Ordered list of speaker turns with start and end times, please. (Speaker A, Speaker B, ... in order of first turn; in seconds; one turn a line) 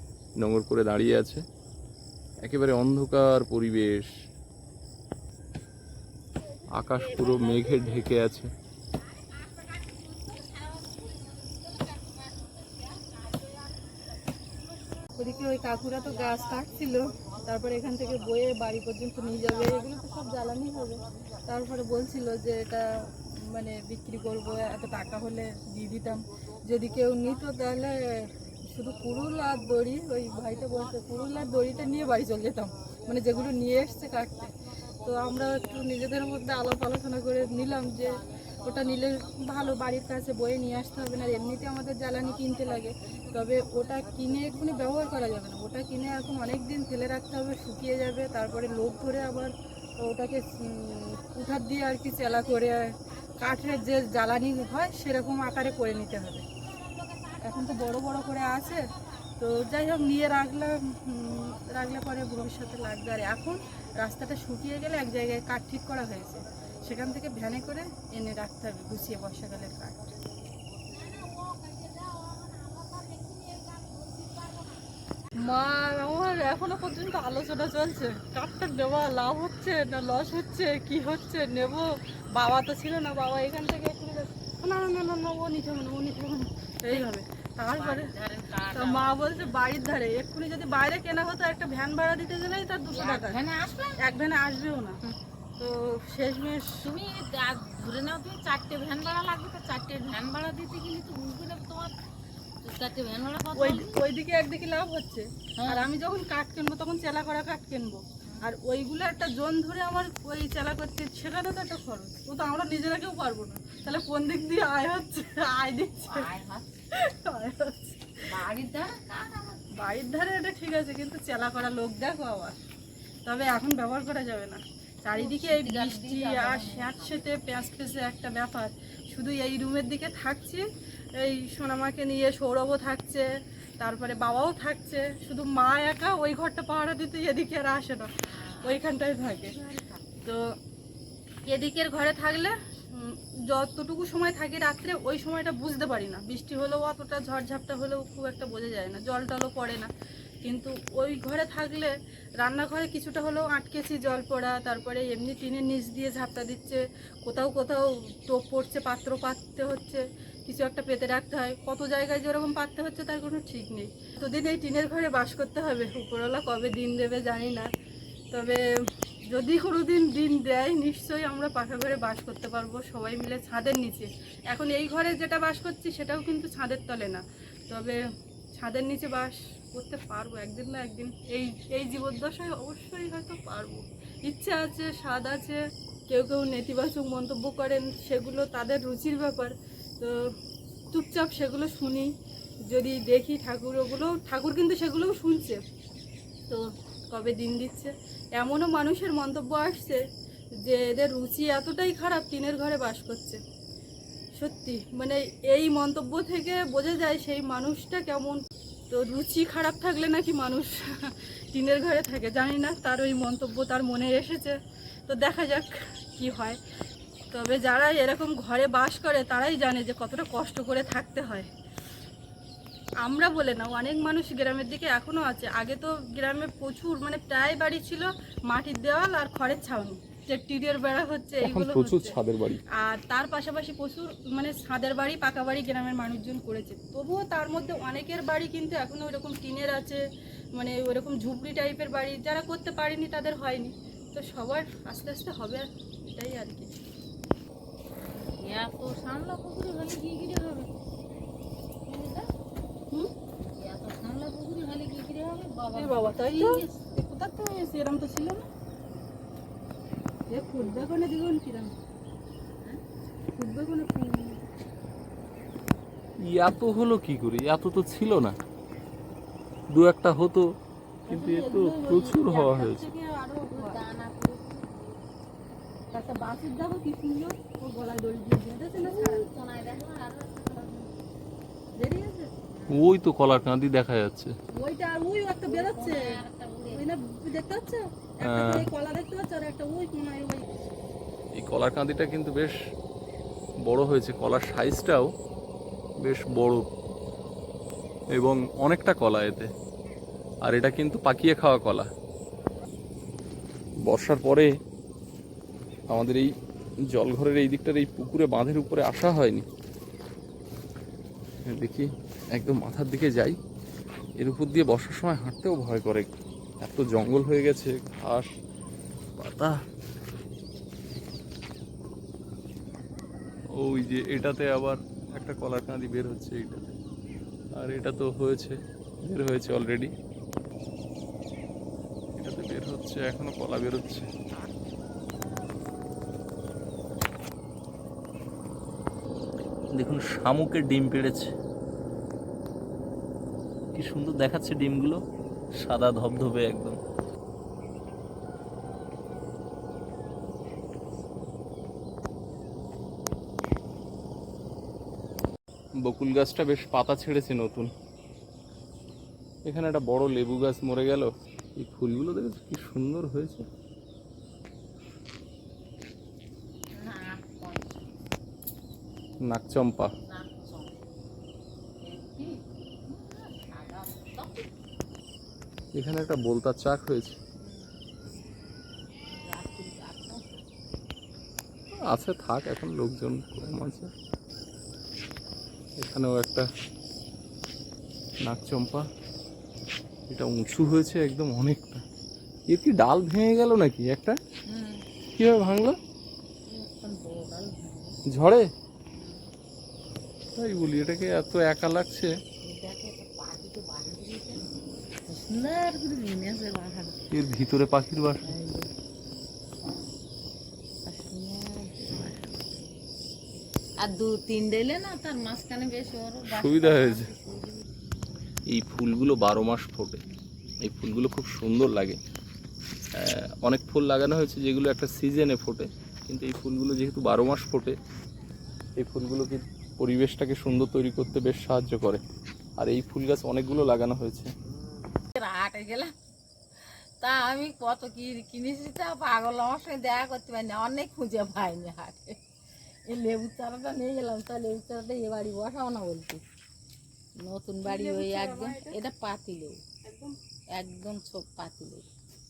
Speaker A: 0.4-1.4
Speaker A: 2.4-4.1
Speaker A: 6.7-8.5
Speaker B: 7.1-8.0
Speaker B: 9.1-15.1
Speaker C: 15.1-56.4
Speaker C: 57.4-58.9
Speaker C: 59.4-70.1
Speaker B: 70.9-74.8
Speaker C: 75.4-88.1
Speaker B: 87.7-89.7
Speaker C: 88.7-93.4
Speaker B: 92.9-94.0
Speaker C: 94.0-95.0
Speaker C: 95.6-96.8
Speaker B: 96.8-101.9
Speaker B: 102.6-104.0
Speaker C: 103.5-116.3
Speaker B: 105.6-105.9
Speaker B: 116.0-116.8
Speaker C: 116.9-118.0
Speaker B: 118.3-119.6
Speaker C: 119.8-122.5
Speaker C: 123.2-130.6
Speaker B: 125.1-127.3
Speaker C: 131.2-133.3
Speaker C: 133.8-139.6
Speaker B: 138.2-140.0
Speaker C: 140.2-140.5
Speaker C: 141.4-149.9
Speaker C: 150.4-167.7
Speaker C: 168.3-168.6
Speaker C: 169.3-178.0
Speaker C: 178.5-190.3
Speaker C: 190.9-192.1
Speaker C: 192.7-195.6
Speaker C: 196.5-200.0
Speaker C: 200.6-203.4
Speaker C: 204.3-214.6
Speaker C: 215.1-216.6
Speaker C: 217.3-221.5
Speaker C: 223.0-232.2
Speaker A: 231.4-232.6
Speaker C: 232.7-240.0
Speaker C: 240.6-246.7
Speaker B: 248.0-250.7
Speaker B: 251.8-252.3
Speaker B: 253.6-256.8
Speaker C: 255.7-258.5
Speaker C: 260.3-261.7
Speaker C: 263.3-264.4
Speaker A: 266.2-268.4
Speaker A: 269.7-270.5
Speaker C: 271.1-273.8
Speaker A: 271.1-272.9
Speaker B: 273.5-274.7
Speaker C: 275.9-279.3
Speaker B: 278.8-281.0
Speaker C: 281.8-282.3
Speaker B: 282.5-282.9
Speaker A: 282.7-284.3
Speaker C: 284.5-286.2
Speaker B: 285.4-286.9
Speaker C: 286.7-290.5
Speaker A: 288.2-288.7
Speaker A: 291.3-292.6
Speaker A: 293.6-295.1
Speaker A: 296.0-296.6
Speaker A: 298.1-299.5
Speaker A: 300.4-301.9
Speaker A: 303.8-304.5
Speaker A: 305.9-306.3
Speaker A: 306.9-309.4
Speaker A: 311.4-313.4
Speaker A: 314.2-316.1
Speaker A: 316.6-318.3
Speaker A: 319.2-319.6
Speaker A: 323.5-326.7
Speaker A: 327.6-329.9
Speaker A: 332.2-334.1
Speaker A: 339.7-341.3
Speaker A: 343.7-345.0
Speaker A: 345.6-346.8
Speaker A: 355.8-357.7
Speaker A: 359.4-363.5
Speaker B: 366.7-367.8
Speaker A: 369.2-369.9
Speaker B: 370.1-370.8
Speaker B: 371.8-374.5
Speaker A: 375.7-377.2
Speaker B: 377.4-377.9
Speaker B: 379.0-380.4
Speaker A: 381.7-383.9
Speaker A: 385.8-386.5
Speaker A: 388.2-388.9
Speaker A: 390.1-391.8
Speaker A: 392.5-394.2
Speaker B: 394.5-394.8
Speaker A: 395.1-395.8
Speaker B: 396.5-398.0
Speaker A: 398.1-398.5
Speaker B: 398.9-399.2
Speaker A: 400.3-402.1
Speaker B: 402.4-404.4
Speaker B: 405.1-407.0
Speaker A: 407.1-408.3
Speaker B: 408.2-408.7
Speaker B: 410.8-412.7
Speaker B: 413.8-417.6
Speaker A: 416.3-417.1
Speaker A: 418.5-420.0
Speaker A: 420.6-422.0
Speaker A: 422.9-427.8
Speaker A: 428.8-432.0
Speaker A: 432.6-434.3
Speaker B: 435.1-435.9
Speaker B: 437.0-442.2
Speaker B: 442.9-446.2
Speaker B: 447.2-449.6
Speaker C: 447.6-448.8
Speaker C: 449.8-450.1
Speaker B: 450.5-451.9